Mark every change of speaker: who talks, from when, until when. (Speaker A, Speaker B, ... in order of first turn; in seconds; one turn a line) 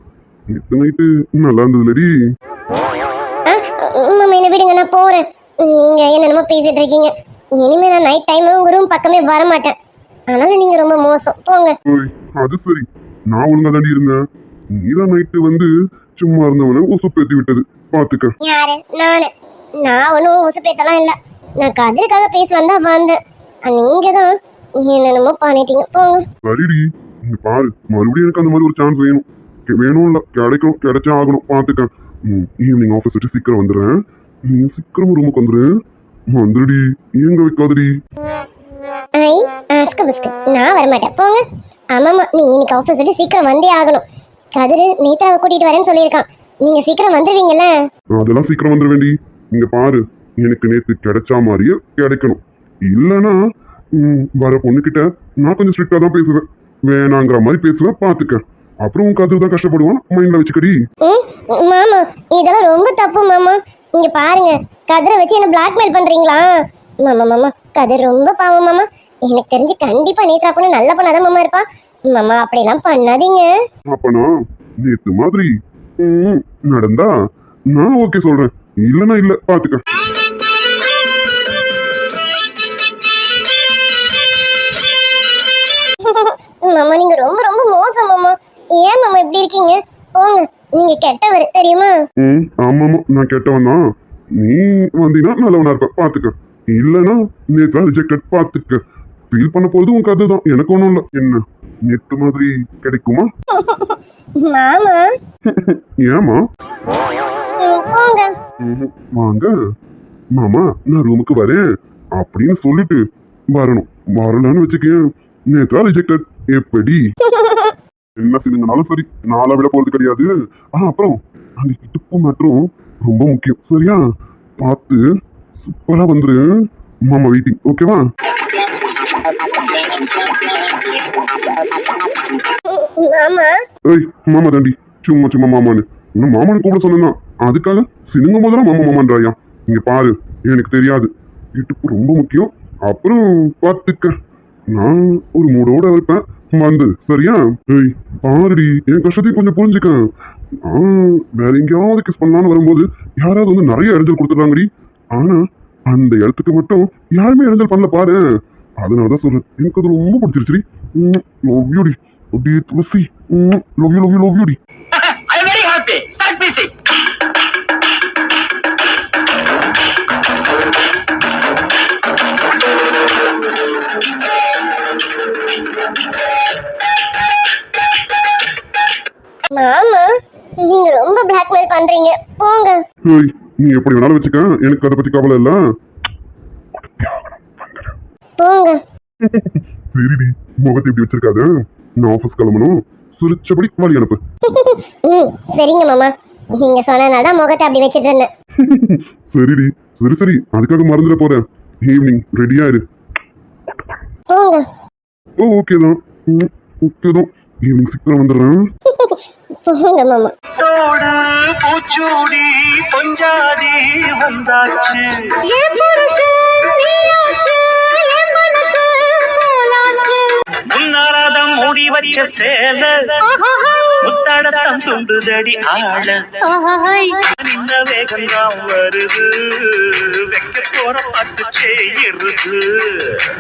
Speaker A: 0.5-2.1
Speaker B: 3.5-9.8
Speaker B: 10.3-11.8
Speaker A: 11.9-18.3
Speaker B: 18.4-19.3
Speaker B: 19.8-26.3
Speaker A: 26.4-35.7
Speaker A: 36.3-37.9
Speaker B: 39.2-41.4
Speaker B: 41.9-44.0
Speaker B: 44.6-47.8
Speaker A: 48.2-53.4
Speaker A: 53.9-60.8
Speaker B: 61.0-73.5
Speaker A: 73.9-74.3
Speaker A: 74.8-77.1
Speaker A: 77.7-79.8
Speaker B: 86.0-92.0
Speaker A: 92.2-93.8
Speaker A: 94.4-103.3
Speaker B: 103.5-105.1
Speaker A: 105.5-106.4
Speaker B: 107.5-108.3
Speaker A: 108.6-109.6
Speaker A: 110.3-111.6
Speaker A: 112.2-117.0
Speaker B: 117.2-117.8
Speaker A: 118.2-124.0
Speaker A: 124.6-125.0
Speaker A: 125.6-126.5
Speaker A: 127.1-128.1
Speaker B: 132.5-133.6
Speaker A: 133.8-144.2
Speaker A: 144.7-158.2
Speaker A: 158.8-164.6
Speaker C: 165.3-166.6
Speaker B: 179.5-182.8
Speaker A: 183.1-185.6
Speaker A: 186.8-188.0
Speaker B: 188.4-188.8
Speaker A: 189.2-194.2
Speaker B: 194.4-198.3
Speaker A: 198.6-202.8
Speaker A: 203.7-204.0
Speaker B: 204.3-204.7
Speaker A: 205.4-208.7
Speaker B: 208.9-210.3
Speaker C: 210.6-215.4
Speaker D: 215.4-220.4
Speaker C: 220.7-223.2
Speaker D: 223.2-224.0
Speaker C: 224.0-226.4
Speaker D: 226.4-227.3
Speaker C: 227.3-233.3